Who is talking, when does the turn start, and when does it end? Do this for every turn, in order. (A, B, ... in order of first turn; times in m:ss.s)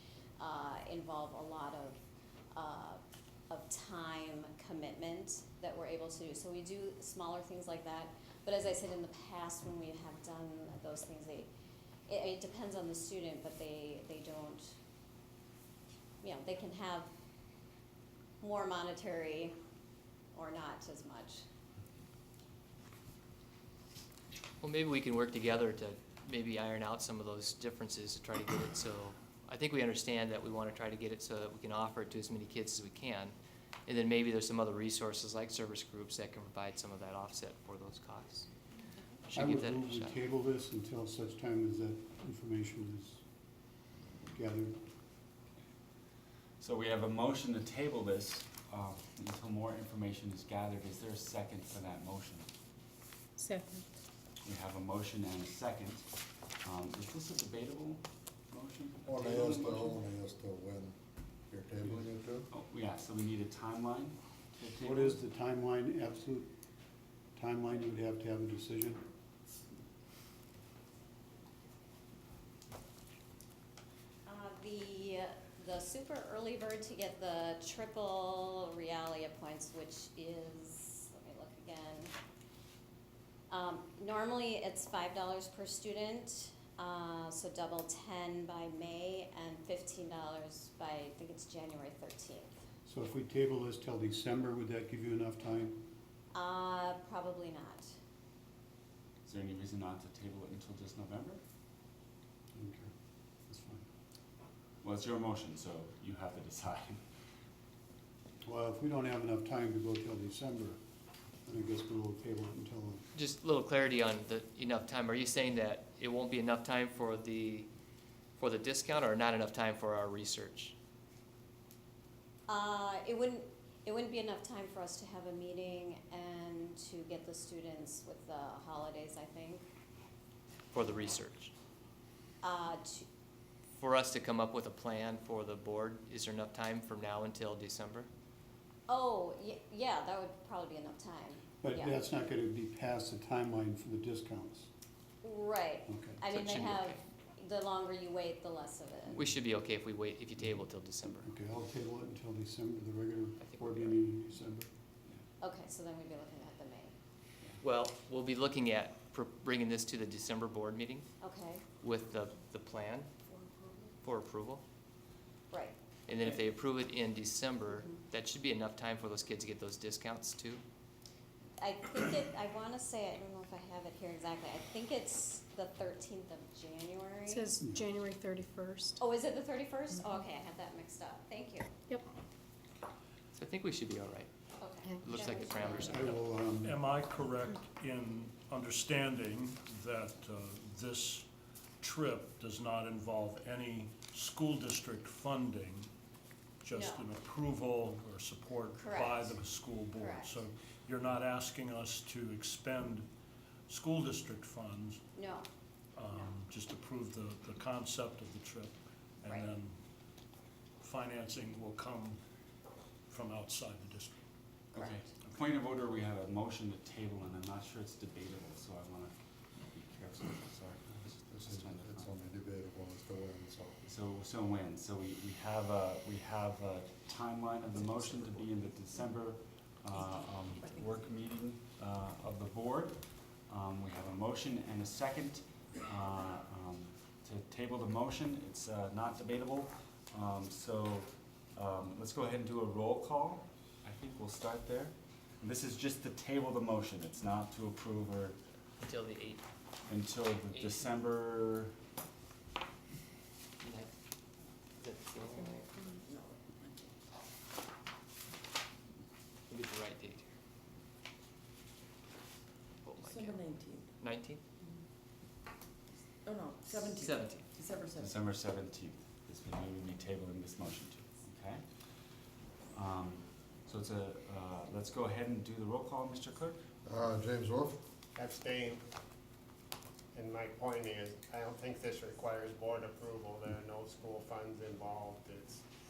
0:00.4-0:02.0 A
0:02.5-0:11.5 A
0:12.1-0:14.7 A
0:16.2-0:17.1 A
0:18.4-0:19.5 A
0:20.3-0:21.4 A
0:24.6-0:33.3 B
0:33.9-0:38.5 B
0:39.3-0:40.2 B
0:39.3-0:43.2 C
0:44.3-0:44.8 C
0:46.6-0:52.5 D
0:53.4-0:53.8 E
0:54.4-0:56.1 D
0:56.6-1:00.0 D
0:59.0-1:01.0 F
1:01.5-1:02.5 F
1:02.5-1:05.2 D
1:04.8-1:06.5 C
1:07.4-1:09.1 C
1:14.2-1:22.1 A
1:23.5-1:32.5 A
1:32.8-1:35.9 C
1:36.3-1:38.0 A
1:39.2-1:41.4 D
1:42.5-1:42.9 C
1:43.5-1:43.8 C
1:44.8-1:47.0 D
1:48.4-1:50.8 C
1:51.4-1:53.0 C
1:53.1-1:57.7 B
1:58.4-2:00.7 B
2:02.5-2:09.6 A
2:10.7-2:11.5 B
2:12.4-2:13.1 A
2:13.7-2:18.1 B
2:18.9-2:22.0 A
2:21.6-2:24.7 C
2:25.2-2:29.2 A
2:25.9-2:26.2 C
2:26.3-2:27.0 B
2:29.2-2:31.3 B
2:31.2-2:34.7 C
2:33.4-2:34.0 B
2:35.4-2:36.9 A
2:37.6-2:41.0 B
2:41.2-2:41.6 A
2:41.8-2:43.1 B
2:44.0-2:44.6 B
2:46.1-2:50.6 B
2:51.6-2:57.5 A
2:57.3-2:59.0 E
2:59.0-3:01.8 A
3:03.3-3:04.3 B
3:04.6-3:05.8 A
3:04.8-3:05.2 E
3:04.9-3:06.2 B
3:05.7-3:06.8 C
3:06.6-3:11.3 G
3:11.8-3:15.9 G
3:16.6-3:23.1 G
3:16.7-3:17.0 A
3:18.7-3:19.4 A
3:19.9-3:20.4 A
3:23.7-3:25.0 G
3:25.1-3:25.5 A
3:26.0-3:29.8 G
3:29.2-3:29.5 A
3:30.8-3:32.2 G
3:33.1-3:34.2 G
3:34.7-3:39.1 D
3:39.7-3:42.1 D
3:41.1-3:43.8 F
3:43.8-4:08.4 D
3:49.9-3:50.9 H
4:08.8-4:09.4 B
4:09.9-4:11.8 D
4:10.5-4:10.8 B
4:13.6-4:13.9 B
4:14.8-4:15.8 B
4:15.3-4:16.9 H
4:19.5-4:20.3 B
4:22.8-4:24.4 B
4:23.0-4:24.0 H
4:26.2-4:28.1 H
4:26.6-4:27.5 B
4:27.9-4:31.6 D
4:32.7-4:36.6 D
4:36.8-4:37.8 F
4:38.1-4:38.8 I
4:40.1-4:45.6 I